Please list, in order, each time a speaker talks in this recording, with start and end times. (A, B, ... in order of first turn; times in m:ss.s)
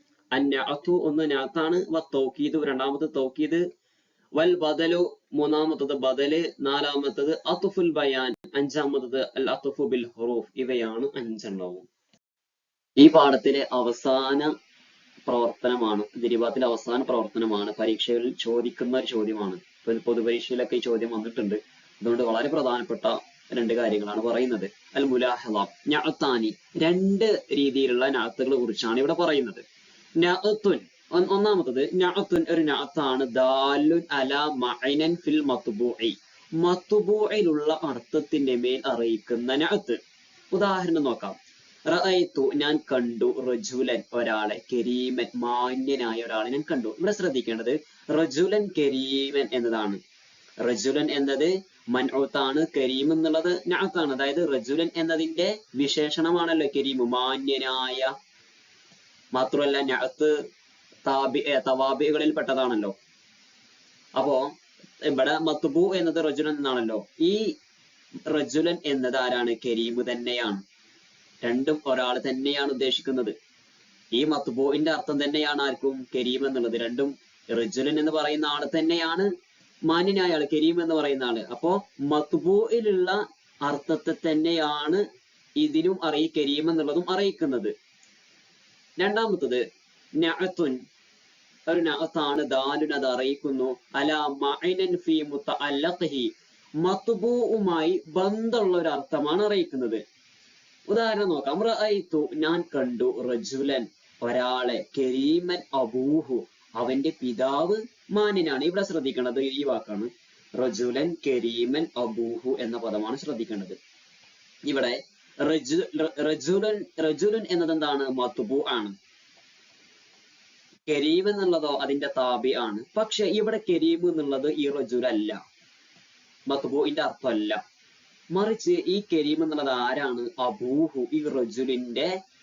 0:00.3-0:03.6 A
0:04.4-0:11.8 A
0:13.0-0:14.5 A
0:15.2-0:29.6 A
0:30.2-0:40.0 A
0:40.5-0:41.4 A
0:41.9-0:50.0 A
0:50.6-0:58.1 A
0:59.3-1:00.3 A
1:01.0-1:02.9 A
1:04.2-1:04.4 A
1:05.0-1:07.4 A
1:08.3-1:10.6 A
1:11.4-1:13.3 A
1:14.1-1:19.3 A
1:19.9-1:25.0 A
1:25.6-1:27.7 A
1:29.0-1:29.6 A
1:30.2-1:30.8 A
1:31.7-1:36.3 A
1:36.8-1:40.0 A
1:40.9-1:53.8 A
1:54.6-1:58.9 A
2:00.9-2:05.4 A
2:06.5-2:07.6 A
2:08.3-2:12.1 A